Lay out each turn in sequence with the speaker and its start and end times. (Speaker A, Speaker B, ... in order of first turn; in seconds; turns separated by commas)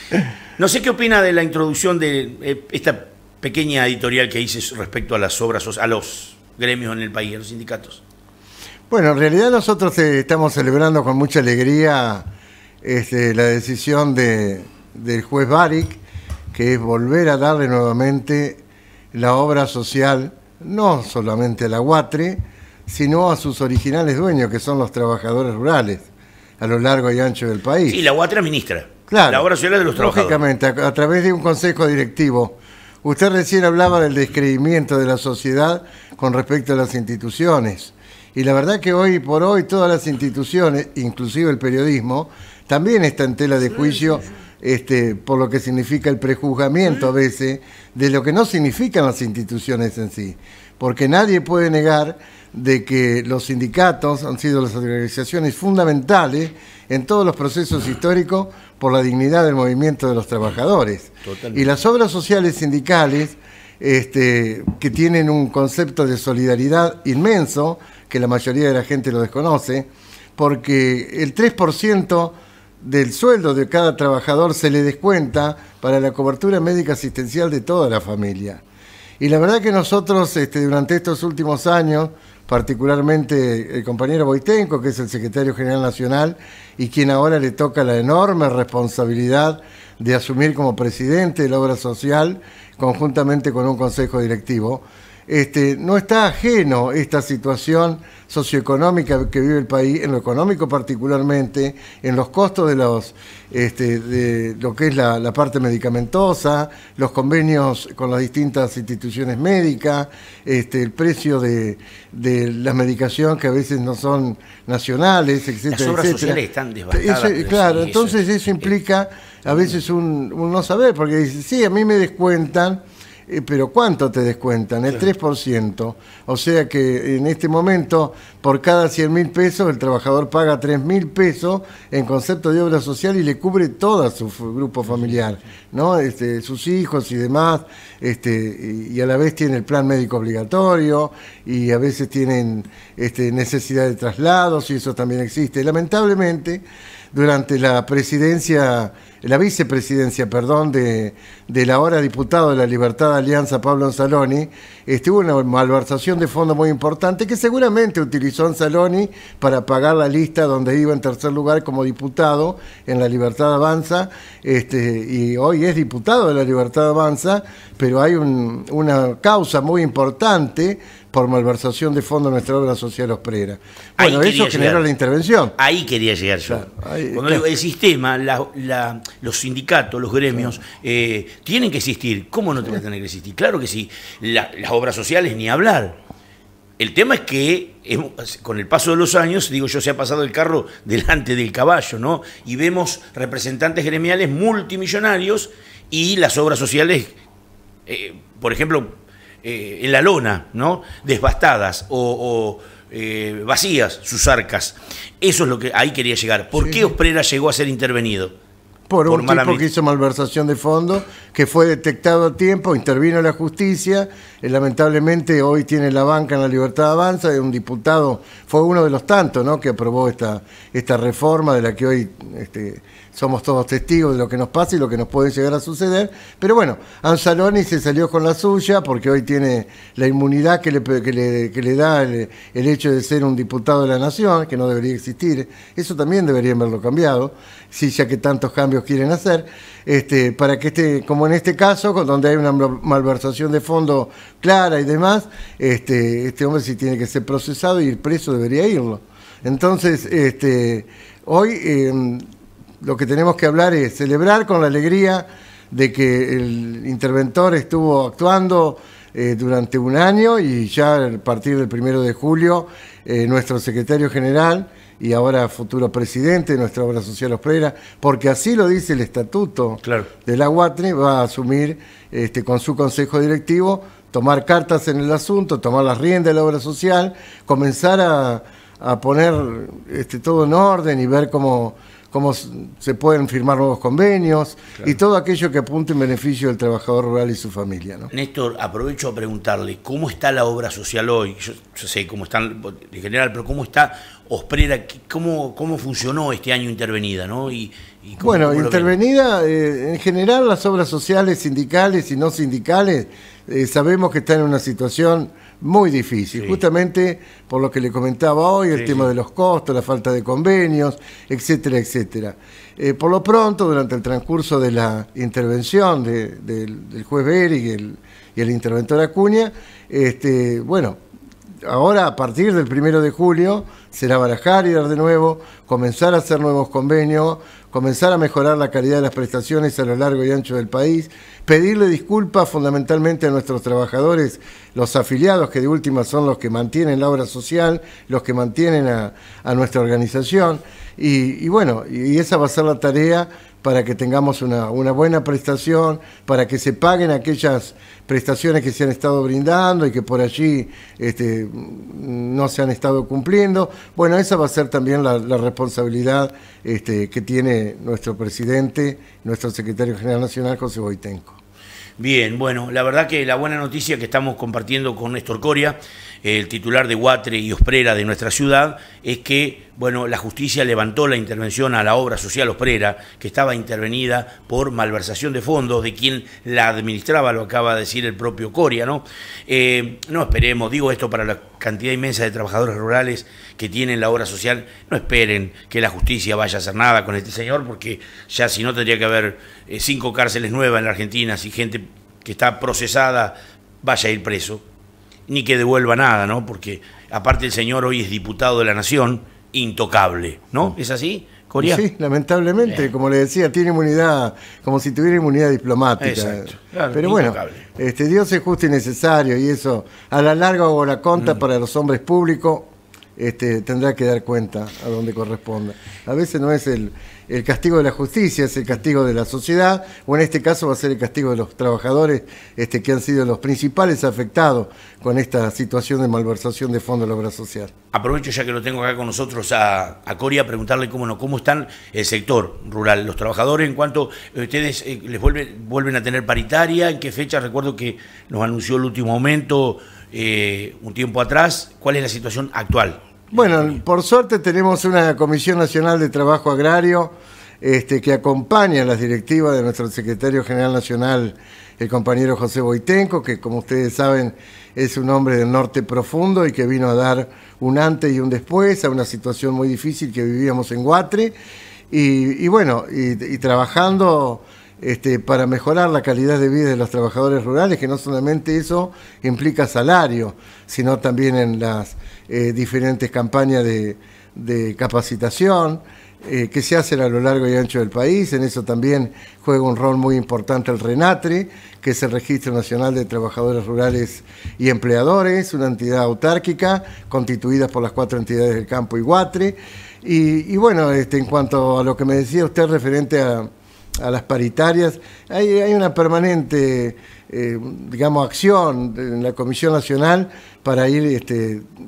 Speaker A: 0.6-8.0, Speaker B: 8.9-12.3, Speaker B: 12.8-16.0, Speaker B: 16.5-18.6, Speaker B: 19.1-26.1, Speaker B: 26.6-28.0, Speaker A: 27.9-30.4, Speaker B: 29.1-78.6, Speaker A: 61.2-61.7, Speaker B: 79.2-116.4, Speaker A: 115.7-118.7, Speaker B: 116.9-175.6, Speaker A: 174.0-174.8, Speaker A: 175.6-186.0, Speaker B: 176.5-177.4, Speaker A: 186.8-197.2, Speaker A: 197.9-208.3, Speaker B: 206.6-206.9, Speaker B: 208.9-252.2, Speaker A: 209.1-209.7, Speaker B: 252.8-288.1, Speaker A: 269.8-270.1, Speaker A: 288.1-299.0, Speaker B: 298.2-321.0, Speaker A: 308.7-309.1, Speaker B: 321.6-361.4, Speaker A: 362.0-394.6, Speaker A: 395.3-401.8, Speaker B: 401.6-427.7, Speaker A: 406.0-407.7, Speaker A: 427.9-443.8, Speaker B: 443.3-461.4, Speaker B: 461.9-493.5, Speaker B: 494.0-501.6